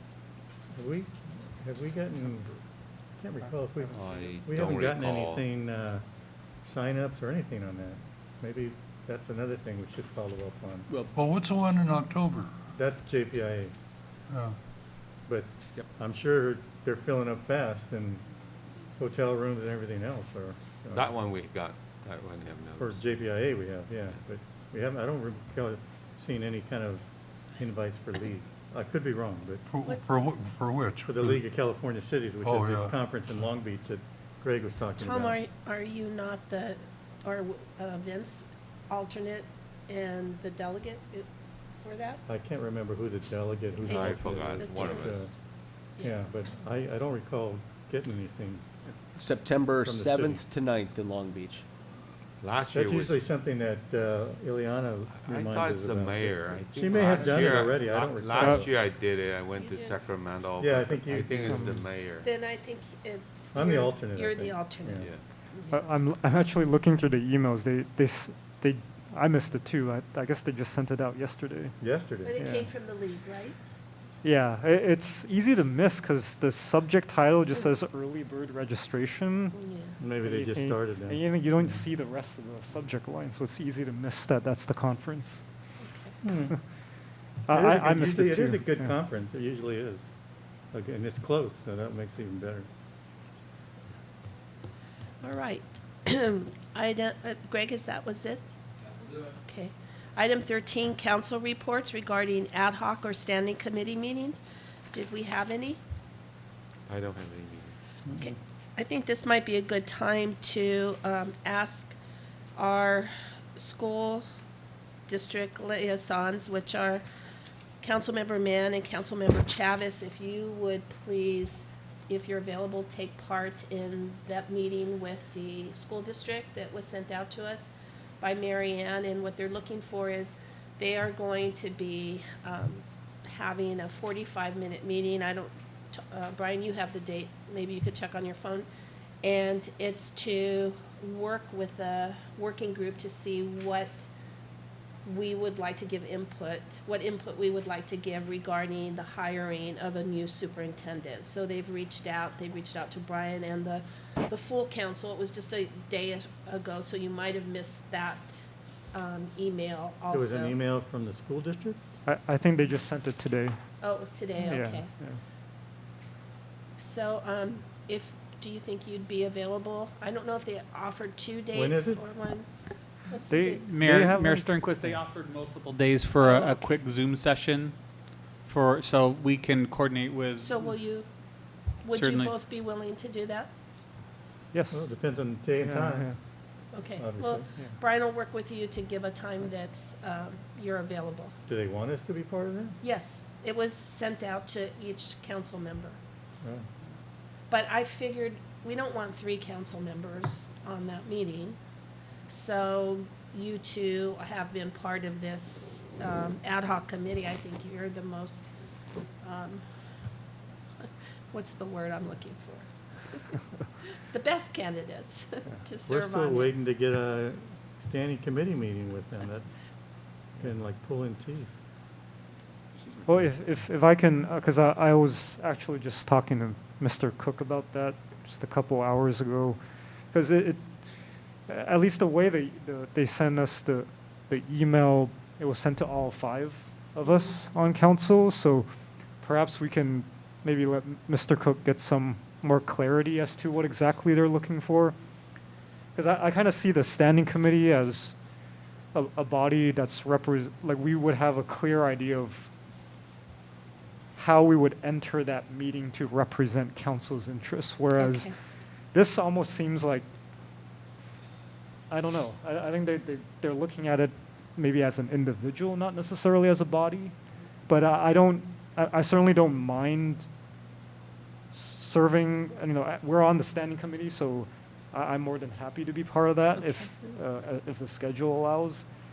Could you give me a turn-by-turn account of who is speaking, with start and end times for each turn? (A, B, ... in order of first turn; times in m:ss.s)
0:00.7-0:02.5 A
0:03.2-0:06.0 A
0:03.9-0:05.5 B
0:06.6-0:10.9 A
0:10.9-0:11.1 C
0:11.2-0:12.6 D
0:12.7-0:13.7 A
0:14.3-0:14.6 D
0:15.3-0:18.2 A
0:19.0-0:21.1 A
0:20.9-0:23.0 B
0:22.8-0:27.0 A
0:27.6-0:29.6 A
0:29.7-0:31.4 D
0:31.0-0:35.4 A
0:32.4-0:32.9 D
0:35.0-0:42.2 E
0:42.3-0:45.3 A
0:43.8-0:45.1 E
0:43.8-0:45.3 B
0:46.0-0:46.2 E
0:46.0-0:48.6 A
0:49.2-0:51.7 C
0:49.8-0:50.4 A
0:52.4-0:53.2 B
0:52.7-0:58.7 A
0:55.1-1:02.3 B
0:58.4-0:58.6 F
0:59.5-1:00.0 E
1:00.6-1:01.8 A
1:02.2-1:05.8 E
1:03.5-1:05.1 A
1:05.7-1:11.8 F
1:11.8-1:12.4 A
1:12.2-1:13.7 E
1:12.4-1:12.7 F
1:14.2-1:19.6 F
1:19.6-1:20.0 E
1:20.0-1:21.8 A
1:20.2-1:25.4 F
1:25.8-1:26.2 E
1:26.2-1:26.5 A
1:27.5-1:28.9 F
1:27.5-1:30.1 A
1:30.7-1:32.7 A
1:35.2-1:38.6 E
1:39.4-1:45.8 E
1:46.9-1:47.8 B
1:48.2-1:52.0 E
1:52.6-1:54.2 E
1:55.1-1:57.0 E
1:57.8-2:18.7 E
2:19.2-2:24.1 E
2:25.0-2:38.4 E
2:38.9-2:40.6 E
2:40.1-2:41.8 A
2:42.1-2:43.6 F
2:43.8-2:44.9 E
2:44.4-2:45.2 F
2:46.8-2:52.5 E
2:51.5-2:52.0 A
2:53.1-2:53.6 E
2:53.3-2:55.0 F
2:53.6-2:57.8 G
2:56.2-2:56.7 E
2:58.4-3:00.6 G
3:00.4-3:01.1 E
3:01.8-3:03.5 E
3:01.9-3:02.3 G
3:04.5-3:04.8 F
3:04.7-3:06.1 A
3:05.6-3:06.2 F
3:06.7-3:11.3 E
3:07.0-3:07.4 A
3:11.5-3:12.8 A
3:12.8-3:16.0 E
3:17.5-3:21.6 E
3:22.3-3:28.5 E
3:29.2-3:29.6 E
3:30.8-3:33.2 E
3:34.0-3:36.6 E
3:35.9-3:39.5 A
3:40.4-3:41.6 A
3:43.1-3:49.6 F
3:50.1-3:50.6 F
3:51.5-3:58.7 F
3:59.2-4:05.0 F
4:06.0-4:08.2 F
4:08.9-4:12.5 F
4:14.2-4:18.3 F
4:18.0-4:18.3 E
4:18.9-4:20.1 F
4:21.9-4:27.1 F
4:27.7-4:30.3 F
4:31.5-4:38.8 F
4:36.6-4:37.1 E